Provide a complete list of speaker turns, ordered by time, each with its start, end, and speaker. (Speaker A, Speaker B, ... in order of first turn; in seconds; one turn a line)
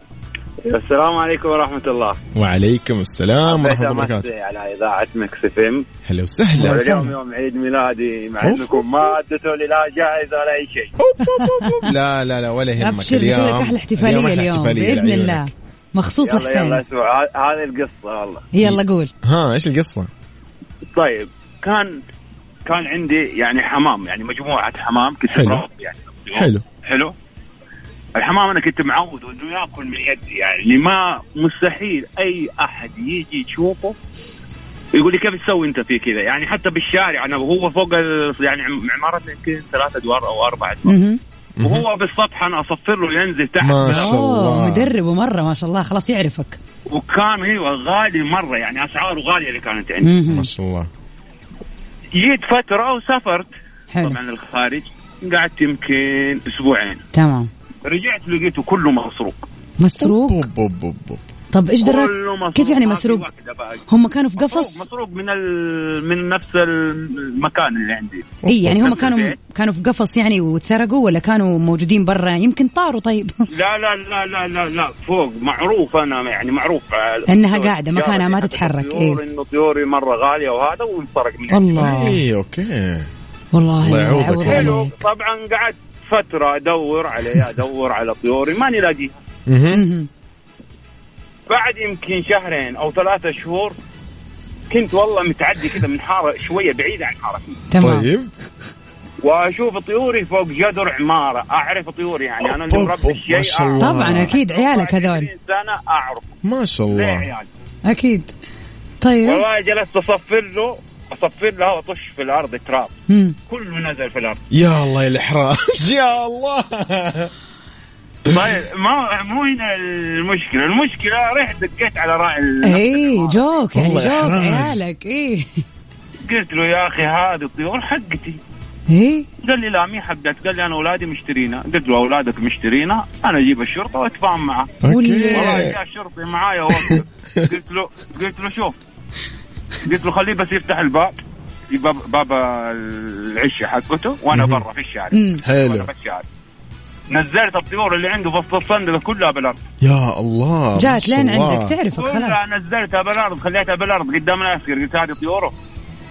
Speaker A: 0.7-2.2
Speaker B: 2.3-4.3
Speaker A: 3.5-5.9
Speaker B: 6.0-7.1
Speaker A: 6.6-10.9
Speaker B: 8.4-8.8
Speaker B: 11.0-15.5
Speaker C: 11.2-11.9
Speaker C: 12.8-16.8
Speaker A: 16.2-18.5
Speaker C: 18.5-19.1
Speaker B: 18.6-20.1
Speaker A: 20.9-22.0
Speaker A: 22.6-27.1
Speaker B: 25.3-25.6
Speaker B: 26.3-26.6
Speaker A: 28.2-34.0
Speaker A: 34.9-41.0
Speaker C: 40.9-41.2
Speaker B: 41.6-41.9
Speaker A: 41.6-44.1
Speaker B: 43.6-44.9
Speaker C: 43.8-46.6
Speaker A: 46.9-50.1
Speaker C: 50.0-50.5
Speaker B: 50.3-50.9
Speaker A: 52.1-53.5
Speaker C: 53.9-54.2
Speaker A: 54.0-57.0
Speaker C: 57.1-57.5
Speaker A: 57.9-59.5
Speaker C: 59.8-60.5
Speaker B: 60.0-61.2
Speaker C: 61.5-63.3
Speaker A: 61.8-63.9
Speaker C: 63.9-64.8
Speaker A: 64.4-69.4
Speaker B: 68.4-68.9
Speaker C: 68.5-73.5
Speaker A: 73.5-81.8
Speaker C: 77.3-79.2
Speaker C: 81.5-82.2
Speaker B: 81.8-83.1
Speaker C: 83.5-85.0
Speaker B: 83.8-84.8
Speaker A: 84.3-89.2
Speaker B: 89.5-89.8
Speaker C: 89.7-90.1
Speaker A: 91.5-93.8
Speaker A: 94.7-97.6
Speaker C: 97.7-98.1
Speaker B: 97.8-98.3
Speaker A: 99.2-106.4
Speaker B: 102.4-104.3
Speaker C: 103.8-105.3
Speaker B: 106.4-107.3
Speaker A: 106.9-107.5
Speaker C: 107.9-108.3
Speaker C: 109.0-109.4
Speaker A: 109.2-112.9
Speaker C: 113.1-113.4
Speaker A: 113.5-114.4
Speaker B: 114.5-117.3
Speaker A: 118.2-123.6
Speaker C: 122.6-125.6
Speaker B: 123.8-124.8
Speaker A: 126.2-128.4
Speaker C: 128.9-129.3
Speaker A: 129.4-138.8
Speaker B: 134.8-135.8
Speaker C: 134.9-135.6
Speaker B: 136.7-137.5
Speaker A: 139.8-141.2
Speaker A: 141.7-146.2
Speaker B: 144.3-144.6
Speaker C: 145.1-145.4
Speaker B: 145.4-145.9
Speaker A: 147.1-149.6
Speaker B: 149.8-151.8
Speaker C: 150.8-152.4
Speaker A: 151.9-155.5